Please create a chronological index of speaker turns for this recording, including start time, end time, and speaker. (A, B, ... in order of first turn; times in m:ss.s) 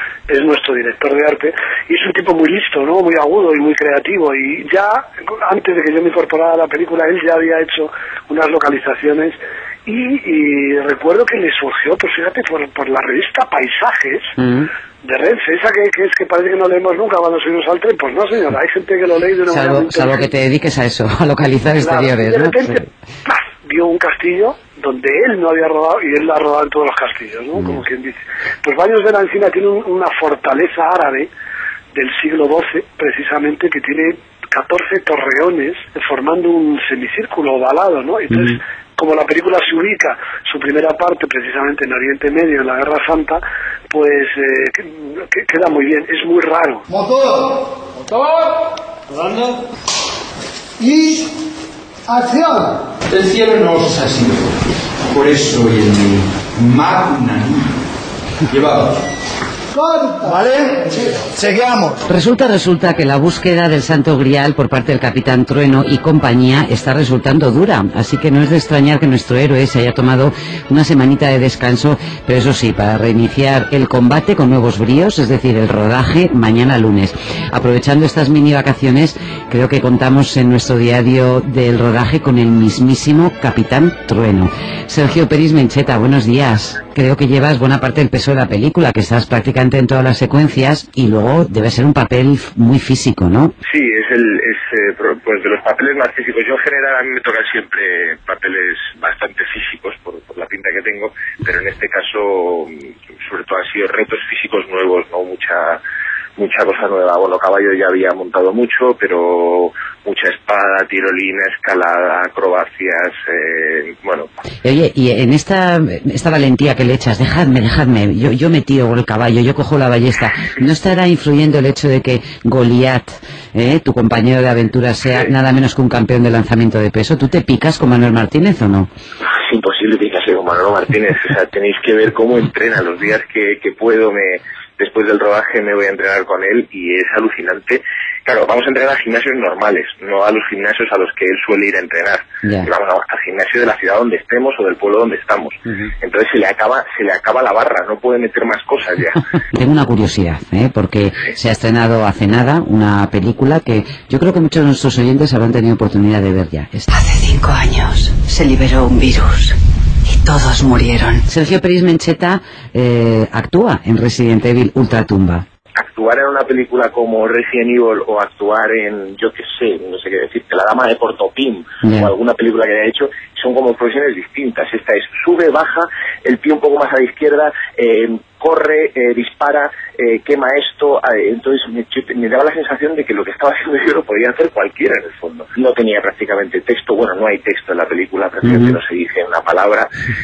0:00.3-0:14.3 A
0:14.4-0:14.7 B
0:15.0-0:20.3 A
0:19.5-0:22.8 B
0:21.8-0:31.3 A
0:27.6-0:27.8 B
0:31.9-0:46.8 A
0:38.3-0:38.6 B
0:46.9-0:47.6 C
0:50.8-0:51.3 C
0:52.1-0:52.7 C
0:53.1-0:54.5 D
0:55.1-0:57.6 D
0:58.5-0:58.9 D
0:59.7-1:01.9 C
1:02.1-1:33.5 B
1:33.7-1:45.8 E
1:46.4-1:54.3 E
1:54.6-2:08.9 B
2:09.4-2:29.2 E
2:22.4-2:22.7 B
2:29.5-2:36.9 B
2:36.9-2:39.6 F
2:40.1-2:41.2 F
2:41.3-2:45.4 B
2:45.8-3:09.9 E
2:51.8-2:52.1 B
3:08.4-3:08.8 B